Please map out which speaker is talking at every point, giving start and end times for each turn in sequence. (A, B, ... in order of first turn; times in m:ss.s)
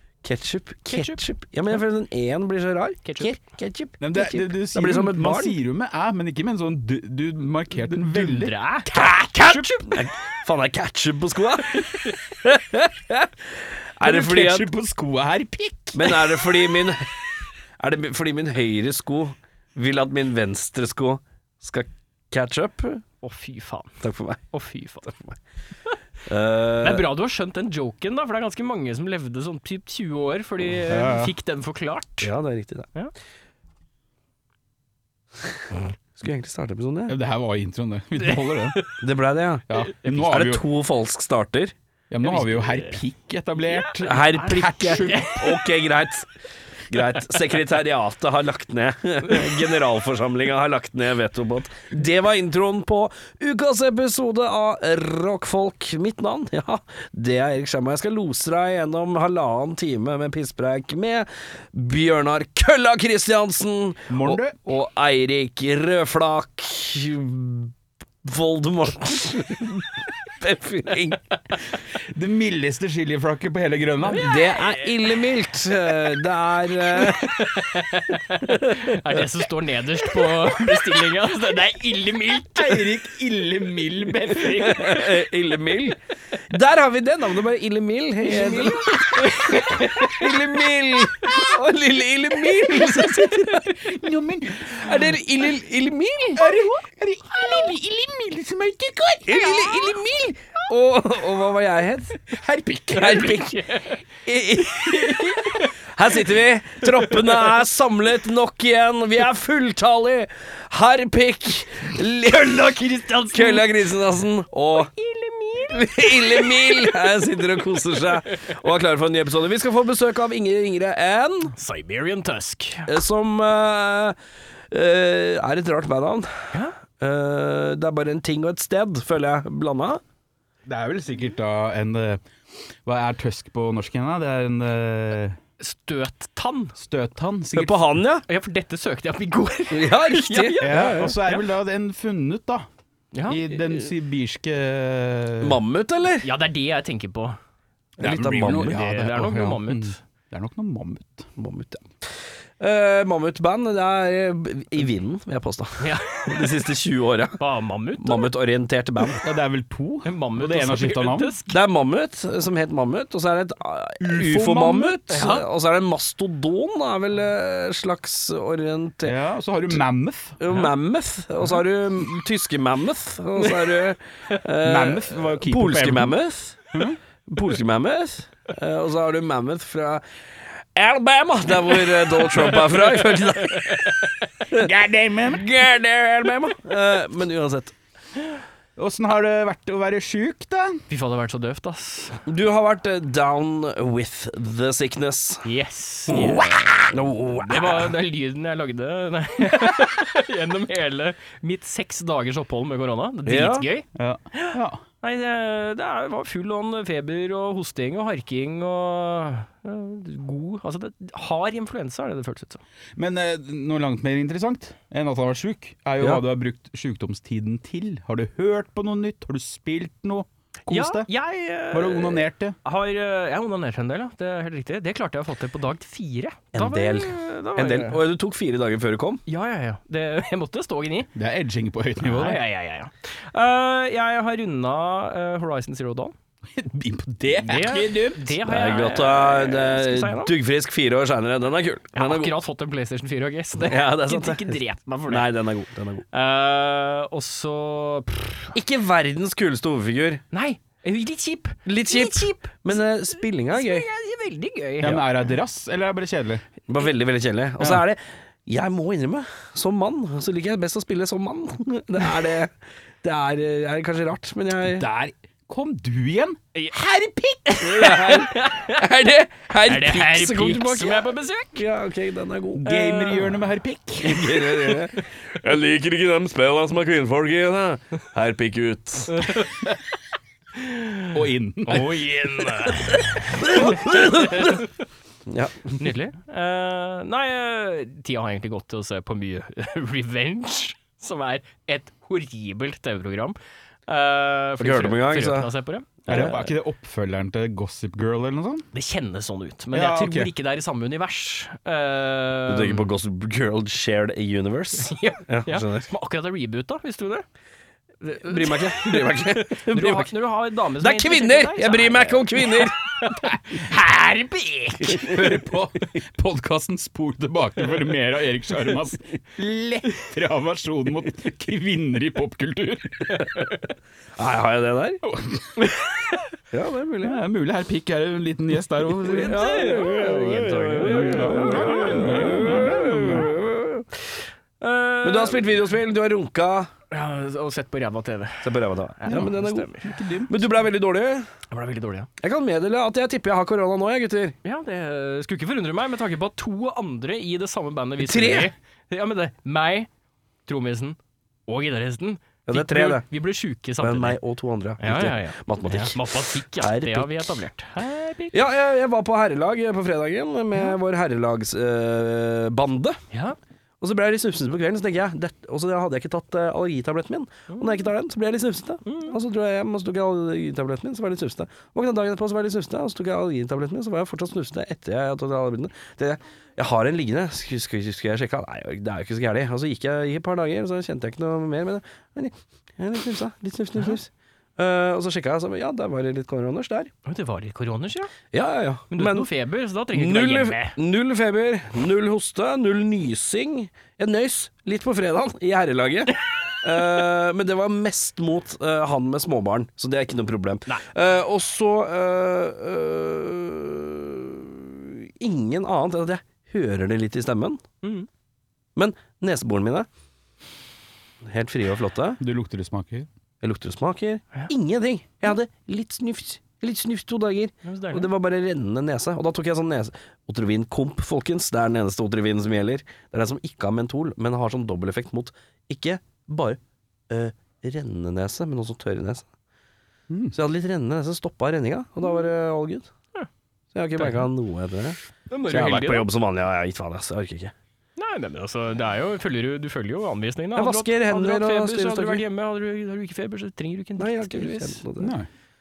0:00.2-0:05.6 A
0:00.9-0:01.2 B
0:03.0-0:03.3 B
0:04.0-0:09.6 C
0:07.8-0:10.0 B
0:09.8-0:14.7 A
0:11.8-0:12.1 B
0:14.0-0:16.4 C
0:15.9-0:17.1 A
0:17.8-0:23.0 A
0:23.2-0:24.0 B
0:24.0-0:24.4 A
0:24.5-0:25.2 B
0:25.0-0:25.3 A
0:26.2-0:27.1 A
0:26.8-0:32.3 B
0:30.9-0:31.3 C
0:32.2-0:32.9 A
0:36.1-0:37.2 A
0:37.1-0:38.8 C
0:38.2-0:38.9 B
0:39.0-0:41.7 A
0:39.7-0:40.6 C
0:42.1-0:45.6 C
0:42.2-0:43.0 B
0:44.0-0:46.3 A
0:44.3-0:45.6 B
0:46.9-1:07.7 A
1:04.1-1:04.6 C
1:08.2-1:11.2 A
1:12.0-1:14.3 C
1:14.1-1:17.5 A
1:14.3-1:14.9 B
1:16.9-1:22.9 B
1:18.4-1:19.2 A
1:22.5-1:25.2 C
1:24.6-1:26.0 A
1:26.5-1:33.8 A
1:28.2-1:29.9 C
1:33.6-1:34.9 C
1:34.7-1:36.4 A
1:36.4-1:39.6 C
1:39.3-1:42.2 A
1:42.2-1:43.3 C
1:42.9-1:43.6 A
1:43.0-1:44.0 B
1:44.2-1:52.7 A
1:44.6-1:45.7 B
1:52.3-1:53.9 B
1:53.3-1:54.9 A
1:54.7-1:57.6 B
1:55.7-2:01.5 A
2:01.6-2:02.9 B
2:02.9-2:04.2 A
2:04.7-2:10.0 A
2:10.6-2:12.2 C
2:12.8-2:15.4 C
2:15.6-2:16.7 B
2:16.8-2:18.0 C
2:17.5-2:18.2 A
2:18.3-2:21.3 B
2:19.7-2:21.2 A
2:20.6-2:22.7 C
2:23.1-2:23.5 B
2:23.3-2:25.6 C
2:25.4-2:26.3 A
2:26.2-2:27.4 B
2:28.0-2:28.8 A
2:28.0-2:31.3 C
2:28.5-2:30.0 B
2:31.4-2:37.4 A
2:35.8-2:36.5 B
2:37.4-2:38.3 B
2:38.0-2:39.2 A
2:39.2-2:41.4 C
2:40.0-2:41.5 B
2:41.5-2:49.2 A
2:44.0-2:45.1 C
2:45.1-2:45.5 B
2:49.0-2:50.4 C
2:50.4-2:56.7 A
2:54.6-2:56.2 C
2:56.7-2:57.0 C
2:57.3-3:00.0 A
3:00.7-3:04.0 A
3:02.4-3:03.9 B
3:04.5-3:05.4 C
3:05.3-3:07.7 A
3:08.8-3:10.8 C
3:10.9-3:12.2 B
3:12.2-3:15.5 A
3:15.4-3:16.9 B
3:16.1-3:16.9 C
3:16.9-3:17.9 A
3:17.4-3:32.6 B
3:23.2-3:23.7 A
3:24.0-3:24.8 C
3:33.0-3:41.1 C
3:40.7-3:48.0 B
3:41.7-3:42.6 C
3:46.5-3:49.2 A
3:49.3-3:51.1 B
3:51.1-3:52.4 C
3:52.0-3:56.1 B
3:56.5-3:58.4 C
3:57.4-4:00.3 B
3:58.4-4:02.3 A
4:01.9-4:05.3 B
4:03.6-4:06.0 A
4:06.1-4:08.5 B
4:08.5-4:10.2 A
4:10.3-4:15.0 B
4:11.6-4:13.9 A
4:14.8-4:16.4 C
4:16.7-4:24.8 A
4:24.6-4:27.7 C
4:27.5-4:28.8 B
4:27.6-4:32.8 A
4:29.6-4:31.6 B
4:32.6-4:34.9 C
4:32.6-4:33.4 B
4:34.0-4:39.3 A
4:39.2-4:39.8 B
4:40.6-4:41.1 B
4:41.1-4:41.9 C
4:41.7-4:44.6 B
4:43.3-4:44.7 A
4:45.3-4:45.9 A
4:45.8-4:53.4 B
4:53.9-4:56.5 B
4:54.6-4:55.5 A
4:56.1-4:58.6 C
4:58.7-5:02.9 B
4:59.7-5:00.3 C
5:02.5-5:05.9 A
5:04.8-5:07.2 B
5:08.0-5:15.2 B
5:08.2-5:10.1 A
5:10.8-5:12.8 A
5:14.8-5:23.5 C
5:24.2-5:25.0 A
5:25.0-5:25.8 C
5:26.5-5:27.2 A
5:27.0-5:29.5 C
5:29.0-5:33.9 A
5:29.1-5:32.7 B
5:30.8-5:33.3 C
5:34.6-5:35.7 B
5:35.0-5:36.7 A
5:36.9-5:39.9 B
5:38.4-5:39.8 A
5:39.1-5:40.5 C
5:40.3-5:41.3 A
5:41.5-5:42.1 B
5:42.2-5:44.4 A
5:44.4-5:49.9 B
5:48.0-5:48.5 A
5:50.4-5:54.2 B
5:52.5-5:53.0 A
5:53.8-5:57.4 A
5:54.8-5:58.4 B
5:58.3-6:03.0 A
6:03.1-6:03.4 B
6:03.8-6:26.9 A
6:07.5-6:07.9 B
6:08.8-6:09.2 B
6:27.0-6:28.1 B
6:28.3-6:29.3 A
6:28.9-6:30.7 B
6:29.9-6:47.6 A
6:47.8-6:48.1 B
6:48.8-6:49.9 A
6:51.2-6:52.2 A
6:52.2-6:53.1 C
6:53.4-7:06.6 A
6:57.6-6:58.1 B
7:07.1-7:09.2 A
7:10.1-7:10.3 C
7:10.3-7:12.9 A
7:13.7-7:15.0 A
7:13.9-7:14.3 B
7:15.3-7:16.1 B
7:15.5-7:15.9 C
7:15.5-7:17.5 A
7:18.0-7:24.8 B
7:20.5-7:22.2 A
7:24.0-7:25.1 A
7:25.0-7:25.3 C